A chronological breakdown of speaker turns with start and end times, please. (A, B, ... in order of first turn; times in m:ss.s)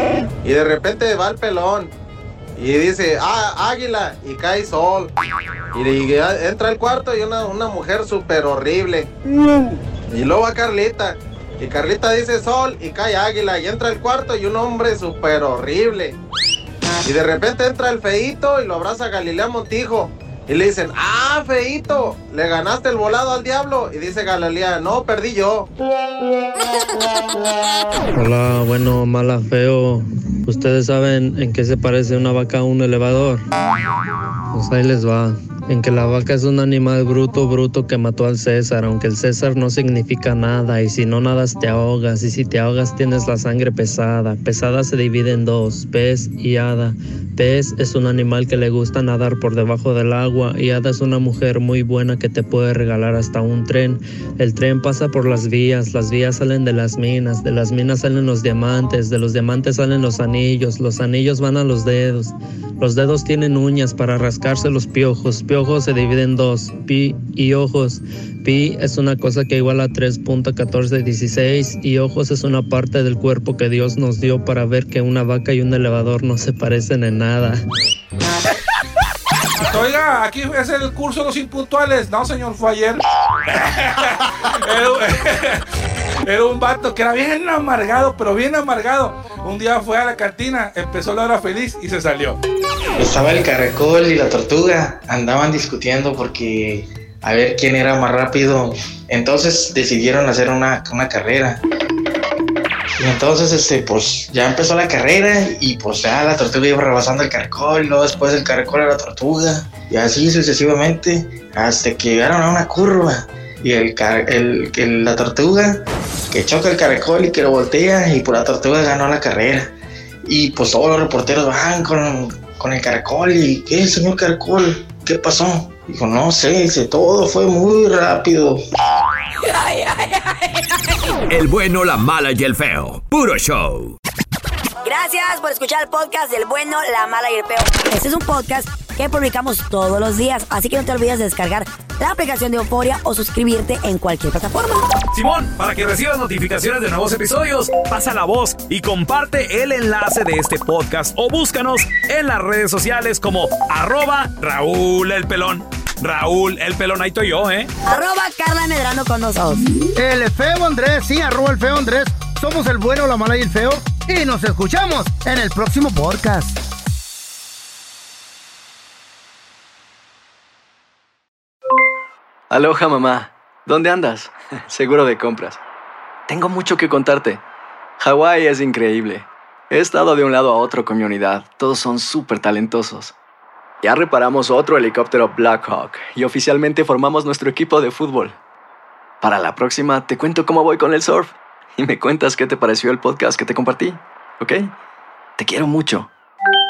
0:00.4-0:01.9 A
0:02.6-0:05.1 A
0:05.7-0:09.1 A
0:10.1-0:16.2 A
0:17.0-0:25.7 A
0:28.1-0:33.4 B
0:34.5-1:17.6 B
1:19.6-1:25.6 C
1:26.3-1:32.4 C
1:33.0-1:41.6 D
1:43.0-1:59.7 D
2:00.2-2:08.6 D
2:11.3-2:14.0 E
2:14.8-2:24.9 F
2:25.1-2:37.7 G
2:37.8-2:39.8 F
2:39.9-2:46.6 H
2:52.5-2:55.6 I
2:56.3-2:57.4 I
2:58.0-3:03.1 I
3:03.8-3:08.4 I
3:09.2-3:14.7 I
3:15.4-3:16.1 I